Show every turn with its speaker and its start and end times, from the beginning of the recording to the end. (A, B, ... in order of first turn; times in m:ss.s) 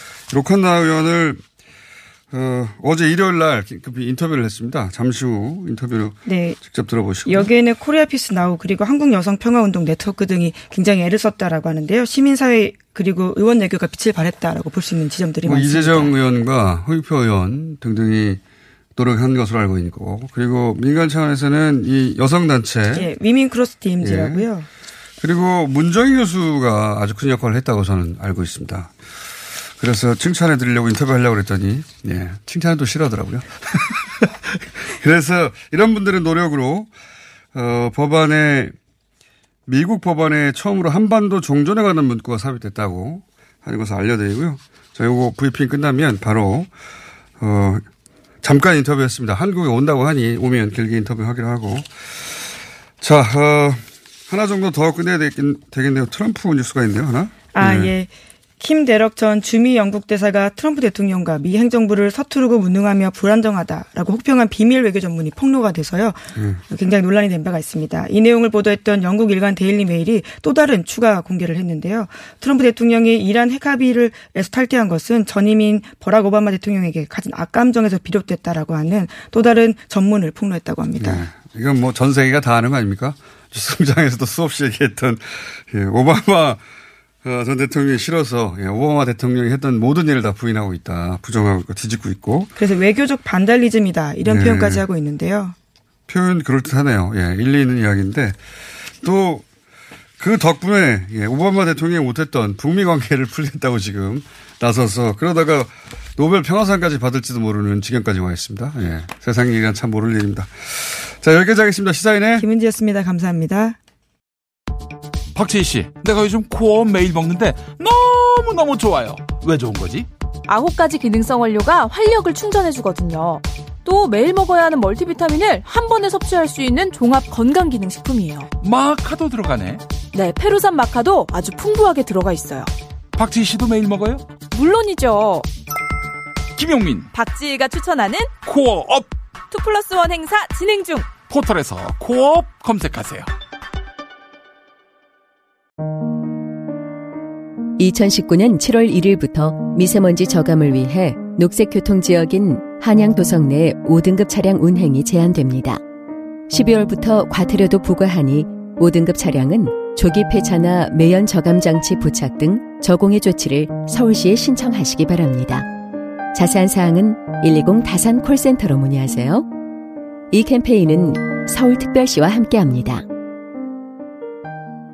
0:00.3-0:01.4 A
0:02.3-0:07.5 A
0:06.3-0:06.6 B
0:07.2-0:16.1 B
0:15.4-0:18.4 A
0:19.0-0:23.1 A
0:22.9-0:24.7 B
0:24.0-0:24.4 A
0:25.2-0:28.9 A
0:29.8-0:34.2 A
0:34.8-0:36.9 A
0:37.5-0:38.7 A
0:39.7-0:46.7 A
0:47.4-0:47.8 A
0:48.4-0:52.5 A
0:53.0-0:57.9 A
0:57.5-1:21.2 B
1:06.4-1:06.6 A
1:21.0-1:26.6 A
1:27.2-1:32.5 A
1:32.6-1:35.6 B
1:34.2-1:34.8 A
1:36.1-1:38.4 A
1:39.0-1:39.4 A
1:40.2-1:52.4 A
1:52.4-1:53.8 B
1:55.3-2:00.1 C
2:00.5-2:08.5 D
2:08.6-2:09.8 C
2:10.1-2:12.7 D
2:13.1-2:14.3 C
2:14.5-2:15.4 D
2:16.6-2:17.1 C
2:17.1-2:18.3 D
2:18.4-2:19.1 C
2:19.5-2:21.1 D
2:21.3-2:23.3 C
2:27.8-2:35.8 E
2:36.5-2:45.7 E
2:46.3-2:49.5 E
2:50.3-2:53.1 E